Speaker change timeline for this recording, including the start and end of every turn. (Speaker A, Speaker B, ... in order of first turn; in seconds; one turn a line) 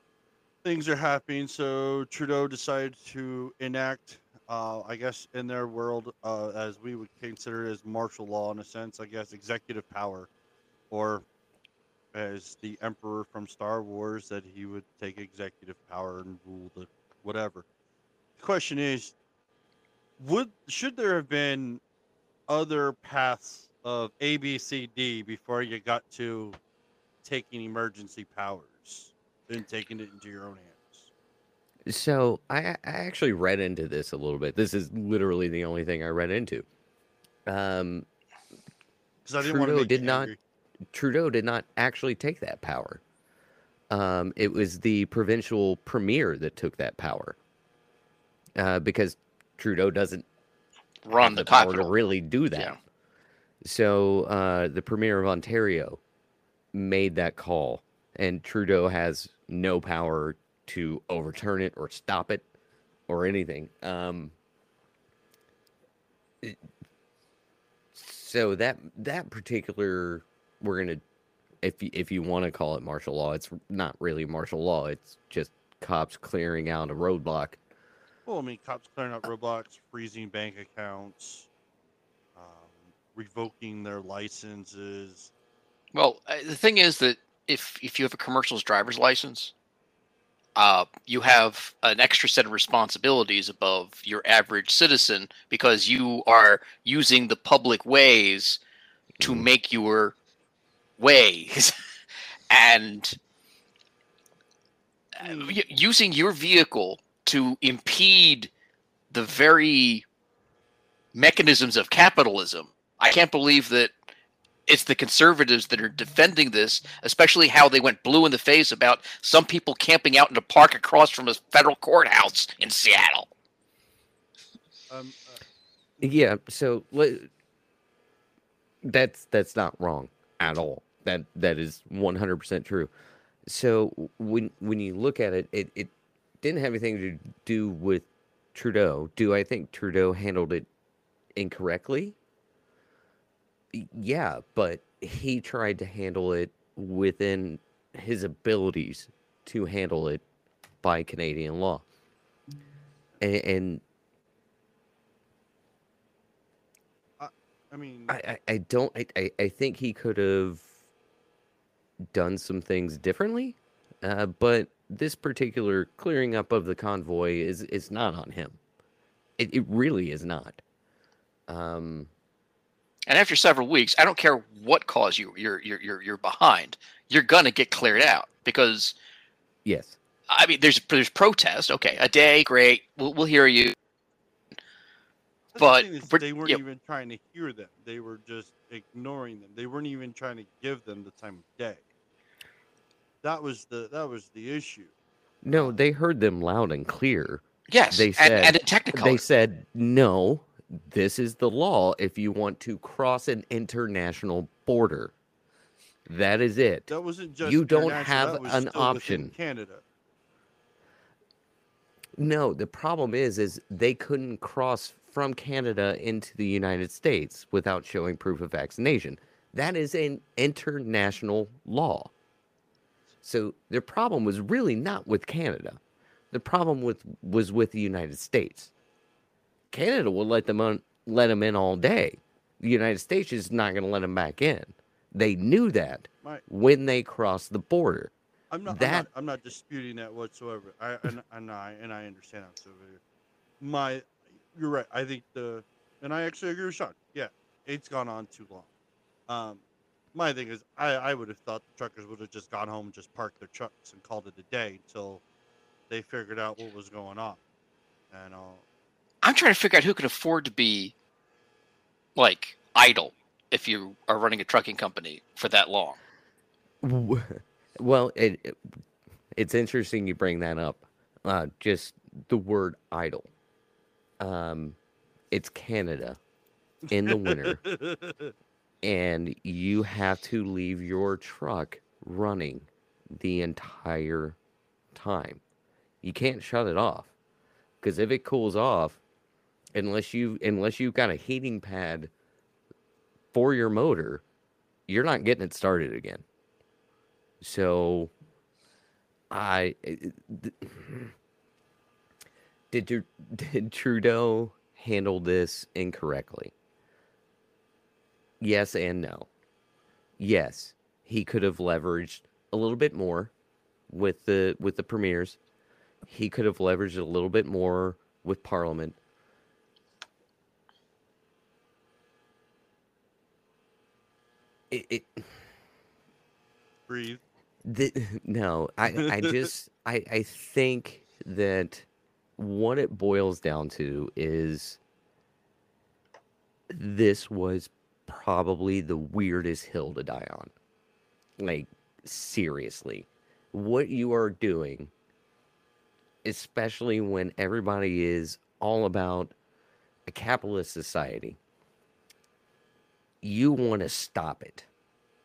Speaker A: 0.6-10.3
Speaker A: 10.9-11.2
Speaker A: 12.1-17.6
Speaker A: 18.4-19.1
Speaker A: 20.2-21.8
Speaker A: 22.5-26.6
Speaker A: 27.2-31.1
Speaker B: 31.9-36.6
Speaker B: 37.5-38.0
Speaker A: 39.2-40.4
Speaker B: 39.4-40.3
Speaker B: 40.9-43.0
Speaker B: 43.9-47.4
Speaker B: 48.5-50.2
Speaker C: 51.0-51.9
Speaker B: 51.1-52.8
Speaker B: 53.6-56.0
Speaker B: 56.7-62.5
Speaker B: 63.1-64.3
Speaker B: 67.9-71.0
Speaker B: 71.6-77.6
Speaker A: 78.2-81.5
Speaker A: 82.3-85.3
Speaker C: 85.9-89.5
Speaker C: 90.5-98.6
Speaker B: 99.2-99.5
Speaker C: 99.2-100.1
Speaker C: 101.0-101.7
Speaker C: 102.5-103.2
Speaker C: 105.2-108.5
Speaker A: 105.2-105.5
Speaker C: 109.1-110.0
Speaker C: 111.1-114.0
Speaker C: 114.7-123.3
Speaker A: 124.9-125.4
Speaker B: 126.0-127.3
Speaker B: 128.8-132.9
Speaker B: 133.5-140.7
Speaker B: 141.3-142.2
Speaker B: 143.7-150.2
Speaker B: 150.8-151.8
Speaker B: 153.2-153.8
Speaker A: 157.2-158.1
Speaker B: 158.1-160.7
Speaker B: 162.1-168.6
Speaker B: 169.4-170.6
Speaker B: 171.5-172.1
Speaker C: 173.1-178.9
Speaker B: 179.6-180.0
Speaker C: 180.3-183.7
Speaker A: 185.5-191.8
Speaker C: 185.6-186.6
Speaker A: 193.2-194.9
Speaker B: 195.4-205.1
Speaker A: 195.5-195.8
Speaker C: 197.7-199.2
Speaker B: 206.1-209.3
Speaker A: 206.9-209.8
Speaker B: 212.2-222.1
Speaker B: 223.2-225.8
Speaker B: 226.3-228.7
Speaker B: 229.7-238.1
Speaker A: 238.5-243.0
Speaker B: 238.7-239.1
Speaker A: 243.6-248.7
Speaker A: 249.3-249.6
Speaker A: 250.1-255.2
Speaker A: 255.9-257.4
Speaker A: 258.1-258.6
Speaker C: 259.2-260.9
Speaker C: 262.1-266.0
Speaker B: 266.8-268.6
Speaker B: 269.3-273.3
Speaker B: 274.2-274.8
Speaker B: 275.3-276.2
Speaker B: 276.9-277.6
Speaker A: 276.9-278.3
Speaker B: 278.8-284.4
Speaker B: 284.9-285.4
Speaker B: 286.0-287.1
Speaker B: 287.8-289.0
Speaker B: 289.7-292.1
Speaker B: 293.3-294.2
Speaker B: 294.9-296.2
Speaker B: 297.4-298.1
Speaker B: 299.3-301.1
Speaker B: 302.7-306.5
Speaker B: 308.4-309.3
Speaker B: 310.2-313.3
Speaker B: 313.9-315.4
Speaker B: 316.1-319.0
Speaker B: 324.7-325.3
Speaker A: 326.9-327.2
Speaker B: 327.6-334.8
Speaker B: 336.7-340.5
Speaker B: 341.4-344.9
Speaker B: 346.2-349.3
Speaker B: 350.1-351.4
Speaker B: 353.2-354.7